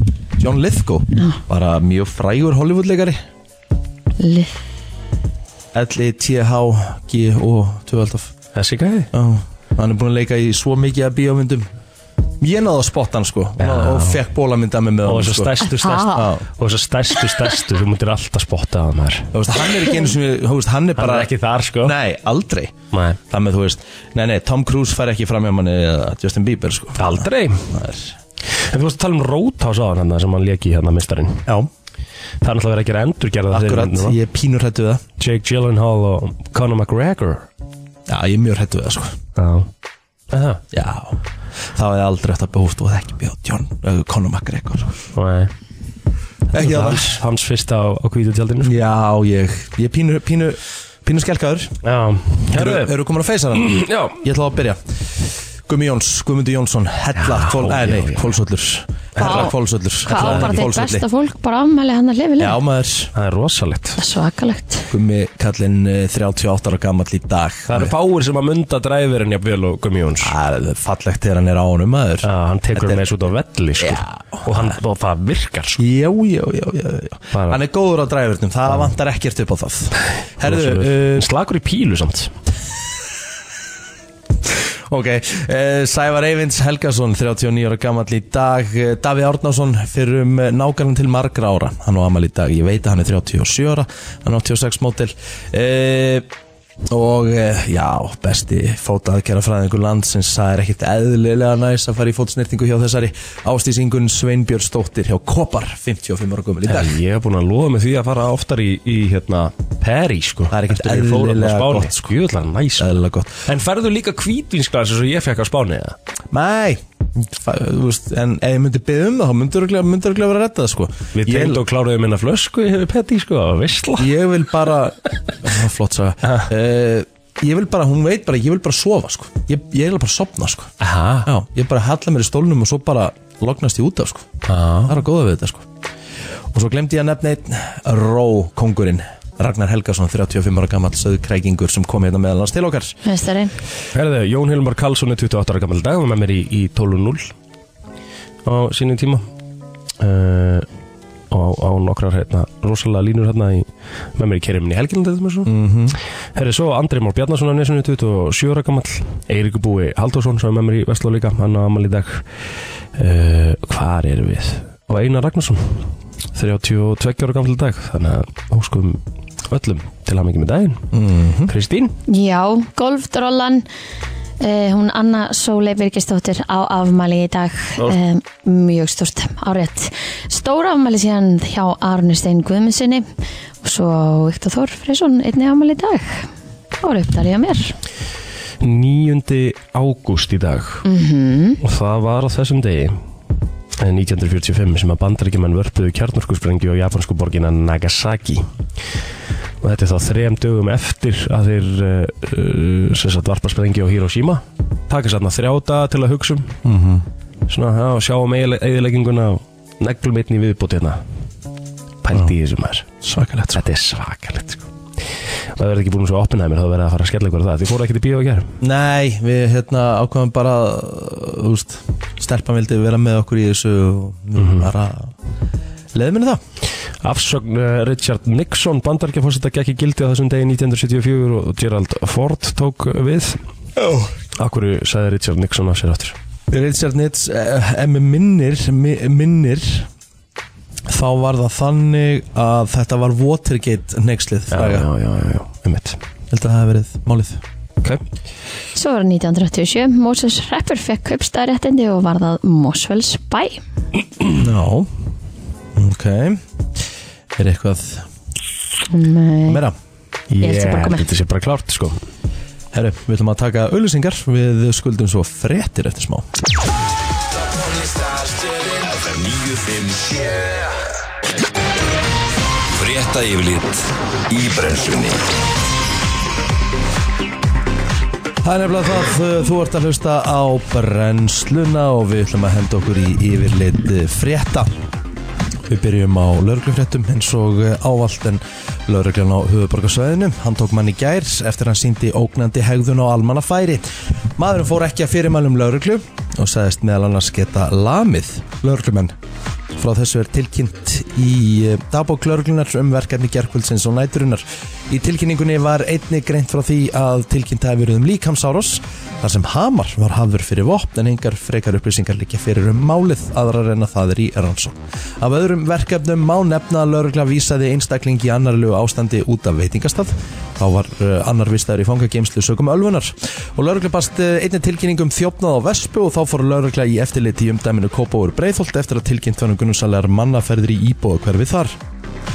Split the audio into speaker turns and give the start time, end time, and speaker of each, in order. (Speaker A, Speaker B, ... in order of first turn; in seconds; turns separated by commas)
Speaker A: 0.4-3.2, Speaker B: 4.2-4.5, Speaker A: 5.7-8.3, Speaker C: 8.6-9.1, Speaker A: 9.1-11.7, Speaker A: 12.4-16.5, Speaker C: 13.6-14.2, Speaker C: 15.1-19.3, Speaker B: 15.6-16.3, Speaker A: 19.3-21.3, Speaker C: 21.0-22.0, Speaker A: 21.8-28.1, Speaker C: 22.9-23.2, Speaker C: 27.0-27.7, Speaker C: 28.6-31.5, Speaker C: 32.4-34.2, Speaker A: 33.5-35.0, Speaker C: 35.2-37.5, Speaker A: 38.1-39.2, Speaker C: 39.4-39.7, Speaker C: 40.3-40.6, Speaker A: 40.7-41.2, Speaker A: 41.7-45.0, Speaker C: 45.1-45.5, Speaker A: 46.5-47.2, Speaker C: 46.6-48.8, Speaker A: 48.6-51.8, Speaker C: 51.8-52.9, Speaker A: 52.5-54.8, Speaker C: 53.6-54.2, Speaker A: 55.7-61.0, Speaker C: 57.2-58.4, Speaker C: 59.2-59.5, Speaker B: 59.2-59.5, Speaker B: 60.0-62.6, Speaker C: 60.1-60.7, Speaker A: 62.4-63.1, Speaker C: 63.1-64.0, Speaker B: 64.0-64.9, Speaker A: 64.9-67.9, Speaker C: 67.7-70.3, Speaker A: 70.2-73.1, Speaker C: 72.2-75.8, Speaker A: 73.8-74.8, Speaker A: 75.8-81.3, Speaker C: 77.3-77.6, Speaker C: 80.4-82.3, Speaker A: 84.5-96.3, Speaker A: 96.9-107.0, Speaker C: 106.7-112.9, Speaker A: 110.5-112.0, Speaker A: 112.8-113.5, Speaker C: 113.5-116.0, Speaker A: 116.3-121.6, Speaker C: 121.2-124.1, Speaker A: 124.0-130.7, Speaker C: 130.8-131.3, Speaker A: 131.2-135.7, Speaker C: 134.5-134.9, Speaker A: 136.5-143.0, Speaker B: 143.1-143.5, Speaker C: 143.9-147.3, Speaker C: 148.4-149.3, Speaker C: 150.0-150.7, Speaker C: 151.3-155.5, Speaker A: 155.4-156.0, Speaker C: 156.3-162.2, Speaker C: 163.0-170.9, Speaker A: 170.9-171.5, Speaker C: 171.5-172.0, Speaker B: 172.1-173.7, Speaker B: 174.4-183.1, Speaker B: 183.6-186.3, Speaker B: 186.8-187.7, Speaker C: 188.6-190.8, Speaker B: 190.8-191.6, Speaker C: 191.6-193.0, Speaker C: 193.8-198.5, Speaker C: 199.6-206.5, Speaker A: 206.6-207.1, Speaker C: 207.5-211.0, Speaker C: 212.0-212.9, Speaker A: 213.0-213.6, Speaker C: 213.5-214.7, Speaker C: 215.6-218.5, Speaker A: 218.6-225.1, Speaker C: 224.4-224.7, Speaker A: 225.9-226.4, Speaker C: 227.0-233.4, Speaker A: 233.8-234.1, Speaker C: 234.4-236.2, Speaker A: 236.5-239.9, Speaker A: 240.9-244.9, Speaker C: 244.5-246.0, Speaker A: 246.3-247.4, Speaker B: 248.8-253.6, Speaker A: 254.3-254.9, Speaker A: 255.8-256.4, Speaker A: 257.4-258.1, Speaker B: 258.9-259.6, Speaker A: 259.5-259.8, Speaker C: 260.3-262.0, Speaker B: 260.4-261.1, Speaker A: 262.7-266.3, Speaker D: 267.3-270.9, Speaker D: 272.7-275.2, Speaker A: 278.4-284.7, Speaker A: 285.7-299.1, Speaker A: 299.8-331.8